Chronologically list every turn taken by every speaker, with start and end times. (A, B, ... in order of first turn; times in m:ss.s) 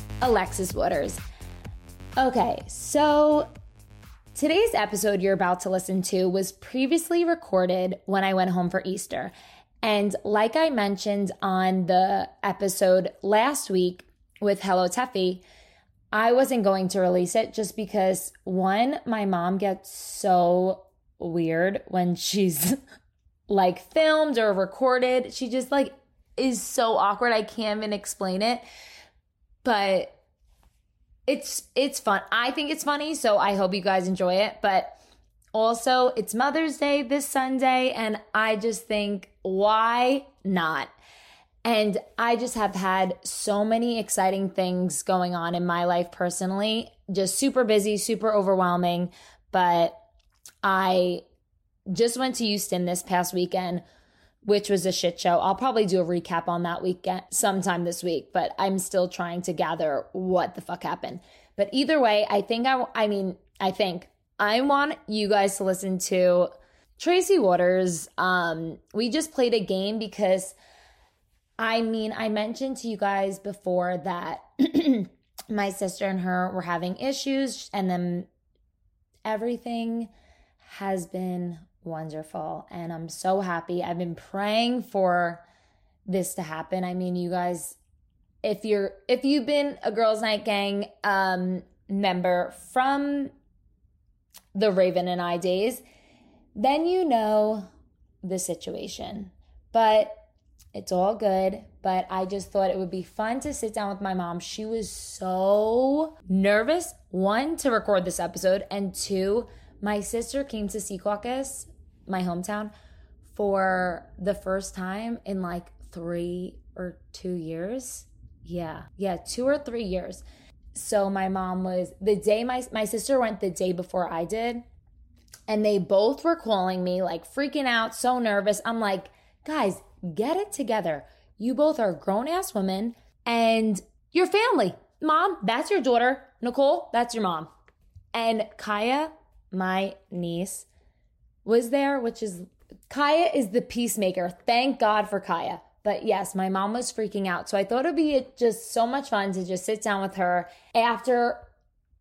0:00.2-0:01.2 A
0:02.2-0:03.5 A
0:04.4-0:15.4 A
0:16.1-0:22.8 A
0:23.5-0:28.6 A
0:29.6-0:30.2 A
0:31.3-0:35.0 A
0:35.5-0:40.9 A
0:41.6-0:50.0 A
0:50.6-0:51.2 A
0:51.9-0:53.8 A
0:54.4-1:10.6 A
1:11.6-1:18.3 A
1:19.2-1:25.4 A
1:26.1-1:27.8 A
1:28.4-1:33.3 A
1:34.6-1:35.8 A
1:36.6-1:37.7 A
1:38.2-1:40.2 A
1:40.7-1:52.7 A
1:53.3-2:04.6 A
2:05.5-2:17.5 A
2:18.1-2:20.7 A
2:21.4-2:31.5 A